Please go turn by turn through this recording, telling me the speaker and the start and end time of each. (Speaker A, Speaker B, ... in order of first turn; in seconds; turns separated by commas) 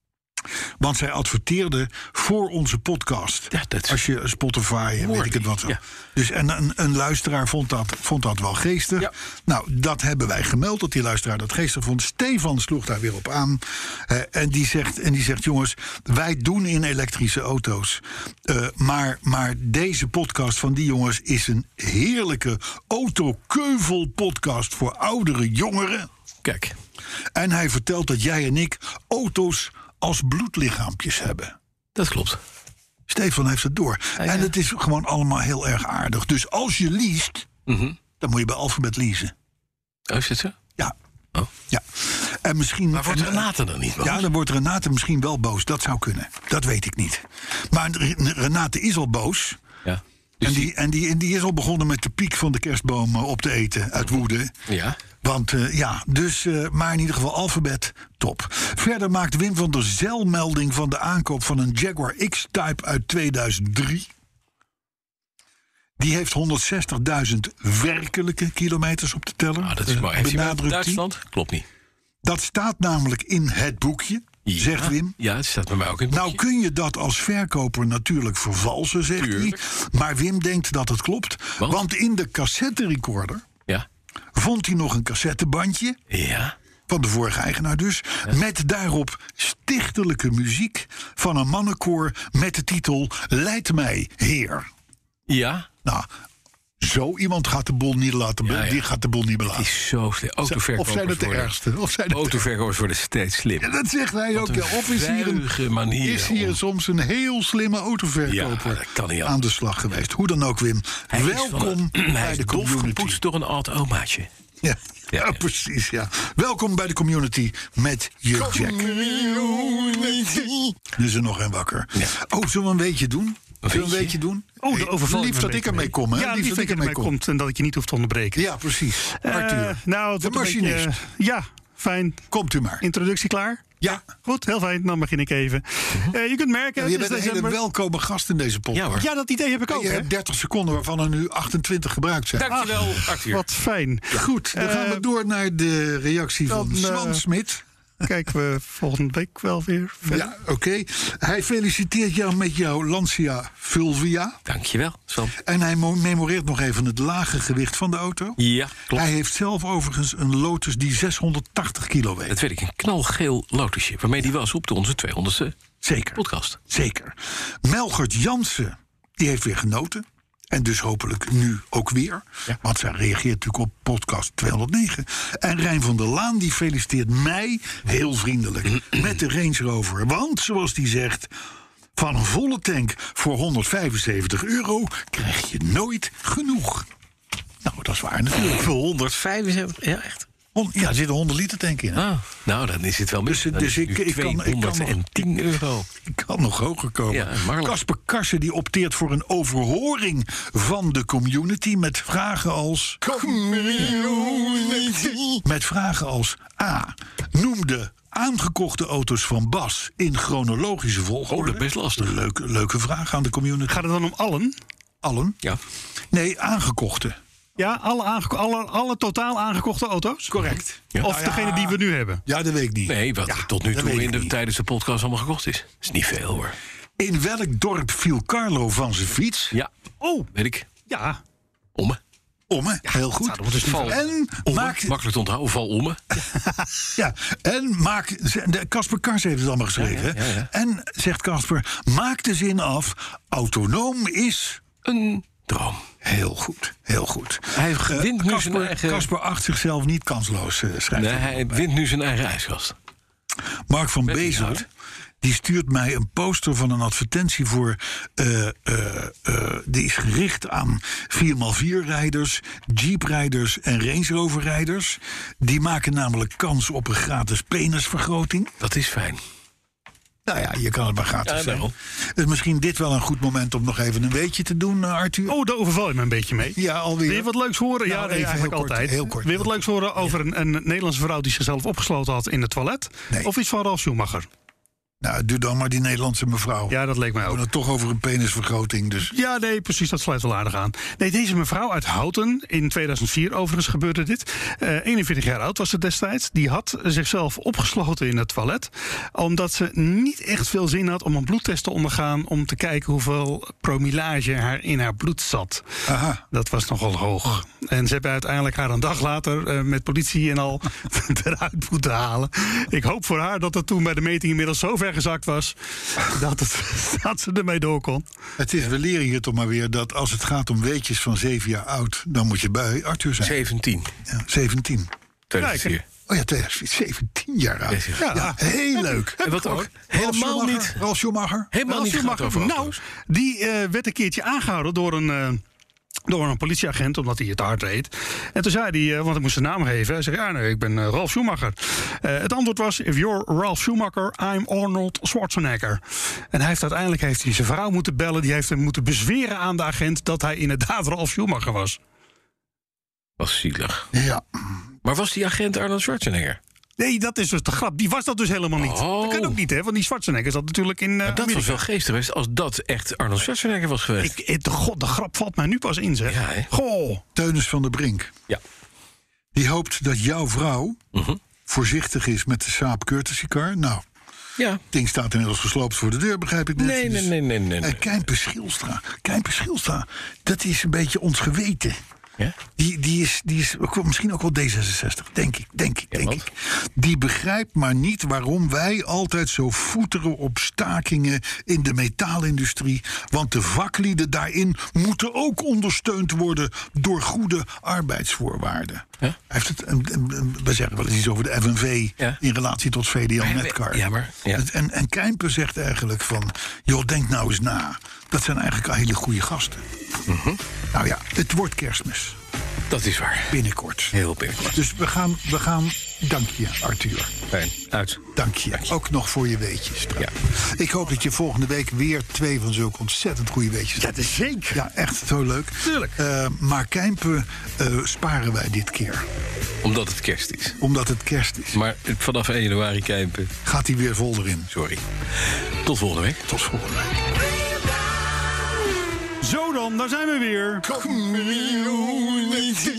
Speaker A: 0.8-26.1, Speaker B: 3.5-4.0, Speaker B: 5.0-5.8, Speaker B: 26.4-26.7, Speaker A: 27.3-31.5, Speaker B: 31.9-32.4, Speaker A: 33.1-37.5, Speaker B: 34.2-34.5, Speaker B: 37.7-38.0, Speaker A: 38.2-39.3, Speaker B: 40.1-40.5, Speaker A: 41.7-43.5, Speaker B: 42.9-44.3, Speaker A: 44.0-49.6, Speaker B: 49.8-50.7, Speaker A: 50.4-54.5, Speaker B: 54.7-55.0, Speaker A: 55.2-64.1, Speaker A: 66.0-71.0, Speaker B: 69.6-71.6, Speaker A: 72.2-75.2, Speaker B: 74.4-76.4, Speaker A: 76.1-83.4, Speaker B: 79.2-79.6, Speaker A: 84.3-86.0, Speaker B: 86.1-86.5, Speaker A: 86.9-94.7, Speaker B: 95.3-95.7, Speaker A: 96.8-99.7, Speaker B: 98.4-98.8, Speaker B: 99.5-101.5, Speaker A: 100.4-102.5, Speaker B: 102.1-103.7, Speaker A: 103.6-113.2, Speaker B: 104.3-106.6, Speaker B: 108.2-109.4, Speaker B: 111.1-114.3, Speaker A: 114.6-127.1, Speaker B: 115.1-115.4, Speaker B: 118.4-120.7, Speaker B: 123.6-124.2, Speaker C: 124.6-128.5, Speaker A: 128.3-130.9, Speaker C: 129.1-132.2, Speaker A: 132.3-132.8, Speaker C: 132.8-137.6, Speaker A: 136.8-139.0, Speaker B: 138.7-139.1, Speaker C: 139.0-140.1, Speaker A: 139.7-142.6, Speaker B: 142.3-143.4, Speaker C: 142.5-145.0, Speaker A: 144.1-147.6, Speaker C: 146.5-147.2, Speaker C: 148.0-150.3, Speaker A: 150.1-154.4, Speaker B: 154.4-155.3, Speaker A: 155.3-158.4, Speaker B: 158.4-159.1, Speaker A: 158.9-162.4, Speaker B: 162.3-165.5, Speaker A: 165.8-181.3, Speaker B: 166.1-166.6, Speaker A: 181.9-186.9, Speaker A: 187.6-188.7, Speaker B: 188.3-190.2, Speaker A: 190.5-192.1, Speaker B: 191.9-195.9, Speaker A: 193.2-195.4, Speaker A: 196.0-213.8, Speaker B: 197.1-197.8, Speaker B: 203.9-205.1, Speaker B: 211.3-212.1, Speaker C: 213.7-214.5, Speaker A: 215.0-215.4, Speaker A: 216.1-217.2, Speaker C: 217.6-220.3, Speaker A: 220.3-223.0, Speaker C: 221.0-222.2, Speaker B: 222.9-226.6, Speaker A: 223.6-224.3, Speaker A: 227.0-229.6, Speaker C: 230.0-230.3, Speaker B: 230.3-230.7, Speaker C: 230.9-231.2, Speaker A: 232.5-235.0, Speaker C: 232.9-234.1, Speaker B: 234.4-236.2, Speaker C: 236.3-236.8, Speaker A: 236.9-244.6, Speaker B: 239.8-240.5, Speaker B: 244.8-245.9, Speaker A: 246.0-251.6, Speaker B: 247.5-249.1, Speaker B: 250.9-252.8, Speaker A: 253.7-254.7, Speaker B: 254.1-254.7, Speaker A: 255.2-268.5, Speaker B: 268.6-269.2, Speaker A: 270.2-275.4, Speaker B: 271.2-271.7, Speaker C: 275.3-284.3, Speaker A: 276.6-277.3, Speaker A: 277.9-279.6, Speaker A: 285.0-289.1, Speaker C: 286.7-287.4, Speaker C: 289.0-305.6, Speaker A: 305.9-306.2, Speaker C: 306.3-318.1, Speaker A: 318.4-323.4, Speaker B: 323.2-323.9, Speaker A: 324.1-324.9, Speaker B: 325.3-325.8, Speaker C: 325.4-325.7, Speaker A: 326.1-331.5, Speaker B: 327.7-328.2, Speaker C: 328.0-328.4, Speaker B: 329.2-330.8, Speaker B: 331.5-332.8, Speaker C: 331.6-335.4, Speaker C: 336.1-345.8, Speaker C: 346.3-351.8, Speaker B: 353.2-353.9, Speaker A: 353.9-354.2, Speaker B: 354.8-356.4, Speaker C: 356.8-361.6, Speaker B: 358.6-359.4, Speaker B: 361.0-364.2, Speaker C: 364.0-367.0, Speaker B: 366.1-366.5, Speaker A: 367.1-368.1, Speaker A: 369.3-370.8, Speaker B: 370.9-371.2, Speaker A: 371.4-373.8, Speaker A: 374.7-381.8, Speaker B: 376.6-378.0, Speaker A: 382.6-409.6, Speaker B: 385.9-386.2, Speaker B: 403.2-404.4, Speaker B: 410.1-410.4, Speaker A: 410.7-412.2, Speaker B: 412.7-413.4, Speaker A: 413.3-413.9, Speaker B: 413.9-414.6, Speaker A: 414.5-417.2, Speaker B: 417.3-418.0, Speaker A: 418.1-423.9, Speaker C: 423.8-424.6, Speaker A: 424.5-429.1, Speaker C: 425.6-426.0, Speaker B: 429.6-430.6, Speaker A: 430.6-431.6, Speaker B: 431.5-433.3, Speaker A: 433.4-434.5, Speaker B: 434.5-436.2, Speaker A: 436.2-437.1, Speaker C: 439.2-440.7, Speaker A: 440.7-442.4, Speaker B: 440.8-442.2